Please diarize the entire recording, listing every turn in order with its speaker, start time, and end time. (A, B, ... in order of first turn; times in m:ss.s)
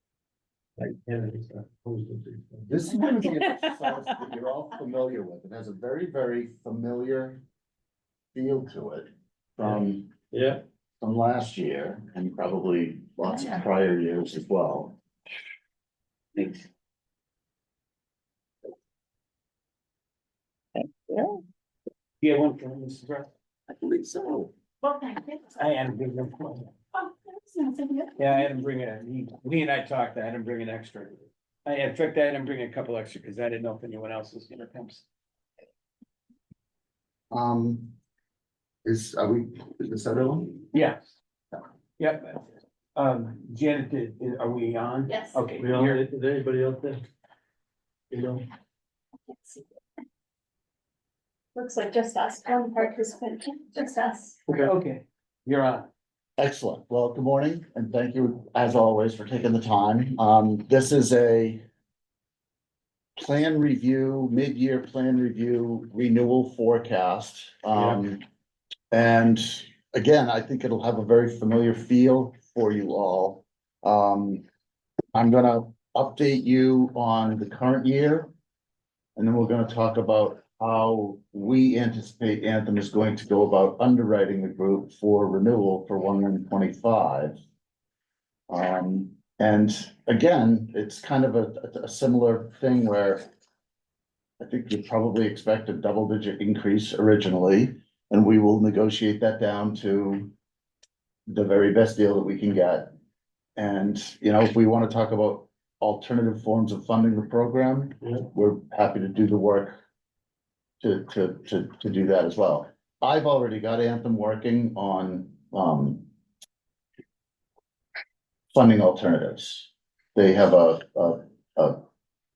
0:00.8-0:02.8 A
0:02.7-0:07.4 B
0:08.3-0:10.1 B
0:09.6-0:10.6 A
0:11.0-0:15.0 B
0:16.4-0:16.7 C
0:22.2-0:23.3 C
0:25.5-0:26.7 C
0:28.2-0:35.0 C
0:37.3-0:37.9 B
0:38.8-0:40.6 B
0:40.7-0:41.1 C
0:42.0-0:46.0 C
0:45.1-0:45.4 D
0:45.6-0:47.0 A
0:48.1-0:48.4 A
0:51.5-0:54.4 D
0:54.5-0:55.9 C
0:56.4-1:01.6 B
1:03.2-1:08.2 B
1:08.9-1:14.4 B
1:15.1-1:18.3 B
1:19.2-1:27.4 B
1:28.5-1:33.2 B
1:34.4-1:40.3 B
1:41.3-1:42.9 B
1:43.6-1:49.8 B
1:50.8-1:56.0 B
1:58.5-2:01.8 B